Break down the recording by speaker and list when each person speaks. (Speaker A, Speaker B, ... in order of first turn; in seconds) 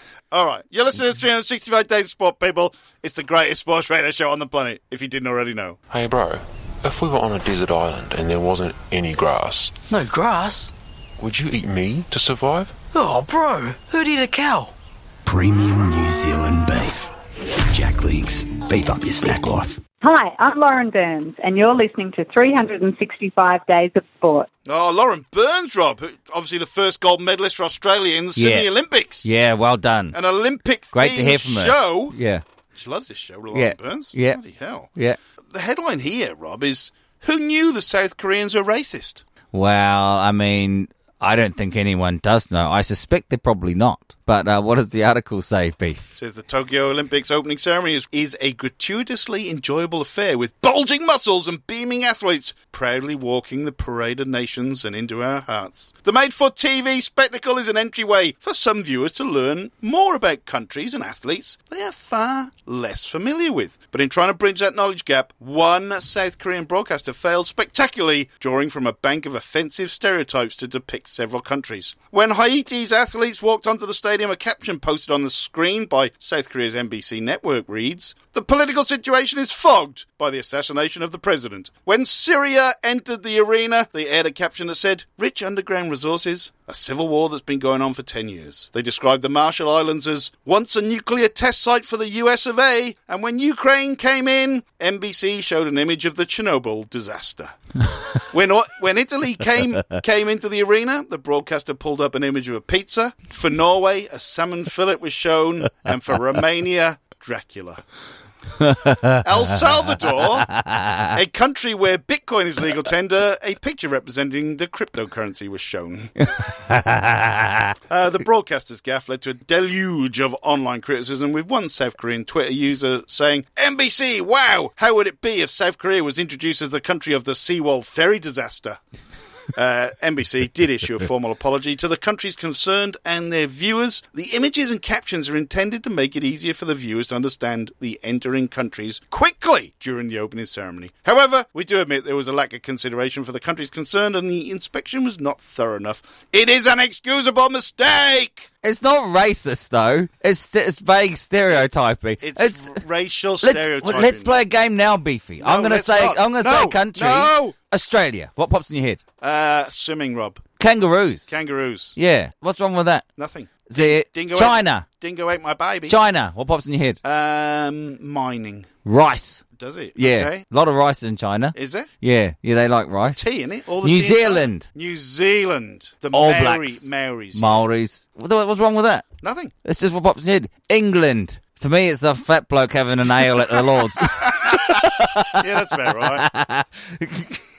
Speaker A: 0.3-5.8, 24.7-29.3, 30.1-32.2, 32.7-34.9, 35.5-39.2, 46.1-97.6, 98.2-107.8, 109.2-110.6, 111.1-116.2, 117.9-128.8, 129.6-148.5, 152.2-154.4, 155.4-157.6, 159.2-160.5, 161.3-162.0, 163.2-166.0, 167.0-168.7, 169.6-170.4, 171.5-171.9, 173.2-177.7, 179.2-179.5, 184.0-186.3
Speaker B: 5.9-9.8, 11.2-12.8
Speaker C: 9.9-10.7, 12.9-14.7
Speaker D: 15.3-17.1, 17.7-19.8
Speaker E: 20.0-24.5
Speaker F: 28.4-28.7, 29.2-30.2, 30.9-32.4, 33.5-34.4, 39.5-46.1, 108.6-109.2, 110.5-111.1, 116.2-117.7, 148.6-152.8, 153.4-159.0, 160.6-161.3, 162.0-163.1, 163.7-164.9, 165.9-167.0, 168.8-169.4, 170.0-173.2, 173.8-174.7, 176.1-179.1, 179.7-187.4